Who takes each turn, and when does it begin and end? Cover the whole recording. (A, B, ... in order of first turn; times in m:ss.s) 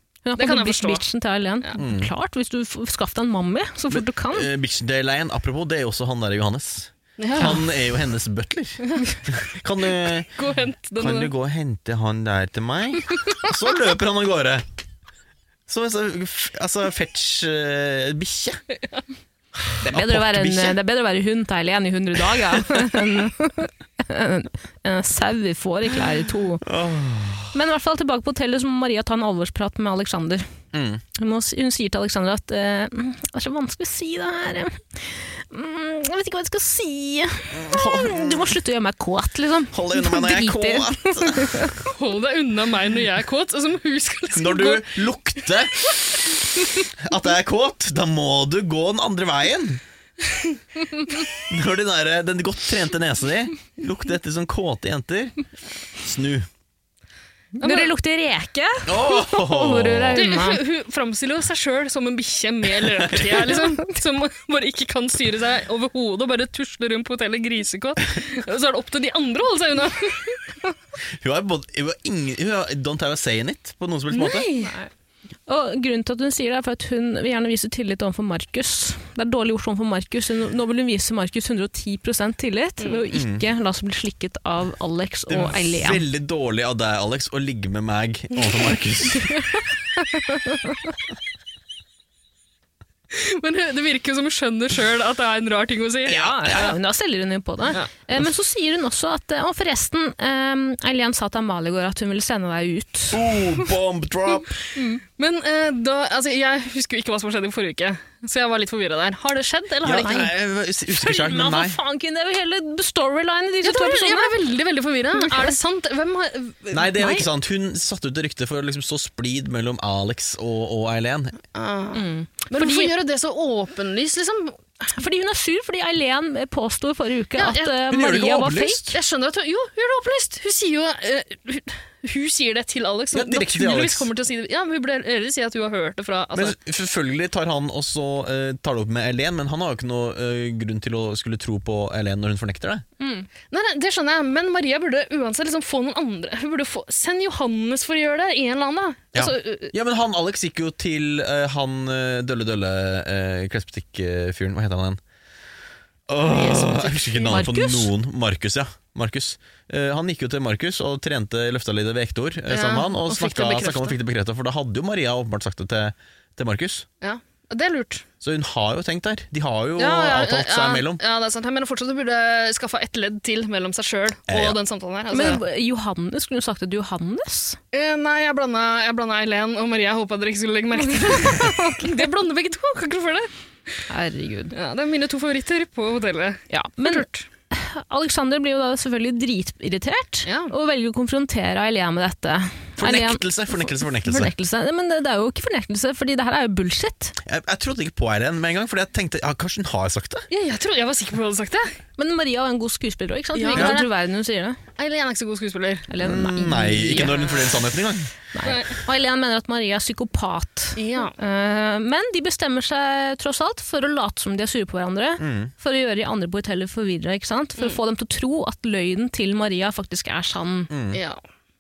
0:00.3-0:04.5 A
0:00.4-0:01.0 B
0:01.8-0:02.1 C
0:03.9-0:10.3 C
0:07.2-0:07.6 B
0:08.9-0:09.2 B
0:10.4-0:11.3 B
0:11.0-0:14.6 C
0:15.7-0:18.6 C
0:19.8-0:26.6 A
0:19.9-0:20.8 C
0:26.6-0:27.5 C
0:27.5-0:30.5 A
0:30.7-0:31.0 C
0:31.2-0:41.8 A
0:37.5-0:38.6 C
0:39.7-0:41.7 C
0:41.8-0:45.0 B
0:44.3-0:45.7 C
0:47.0-0:49.8 C
0:51.5-0:55.4 C
0:56.0-0:56.5 C
0:57.6-1:00.6 A
0:57.6-0:57.9 B
0:58.9-1:00.2 C
1:00.2-1:10.6 B
1:02.8-1:03.6 C
1:11.2-1:14.5 C
1:14.1-1:14.8 B
1:14.6-1:14.9 A
1:15.5-1:26.0 A
1:23.1-1:23.4 C
1:25.3-1:29.3 C
1:29.3-1:30.8 A
1:33.1-1:36.6 B
1:36.1-1:36.7 C
1:36.1-1:43.4 A
1:43.1-1:44.5 C
1:44.8-1:45.0 A
1:45.2-1:50.3 B
1:49.8-1:51.8 C
1:50.9-1:54.4 A
1:53.6-1:57.0 B
1:55.2-1:55.6 A
1:56.7-2:01.4 C
1:57.0-1:57.3 A
2:01.6-2:04.6 B
2:01.9-2:02.9 A
2:05.0-2:09.0 A
2:07.4-2:07.8 B
2:07.8-2:08.8 C
2:08.9-2:16.6 B
2:13.1-2:14.1 C
2:16.3-2:22.8 C
2:23.0-2:23.3 A
2:23.5-2:29.7 B
2:29.2-2:35.0 C
2:36.1-2:46.9 C
2:36.3-2:37.4 B
2:37.3-2:37.9 A
2:42.5-2:44.0 B
2:47.0-2:48.1 B
2:48.2-2:51.0 C
2:49.8-2:55.4 B
2:54.3-2:54.6 C
2:55.1-2:57.6 A
2:57.7-3:03.3 B
3:01.0-3:02.0 A
3:03.9-3:04.5 A
3:04.5-3:07.3 B
3:06.5-3:17.2 A
3:10.3-3:10.5 B
3:12.8-3:14.3 C
3:17.2-3:20.3 C
3:20.3-3:21.8 B
3:22.0-3:24.6 A
3:23.4-3:23.9 B
3:24.8-3:25.9 B
3:25.9-3:27.3 A
3:26.0-3:28.1 C
3:27.0-3:27.5 B
3:28.3-3:40.7 A
3:28.4-3:28.8 B
3:30.8-3:31.2 B
3:35.2-3:35.5 C
3:40.7-3:41.0 C
3:40.9-3:41.2 B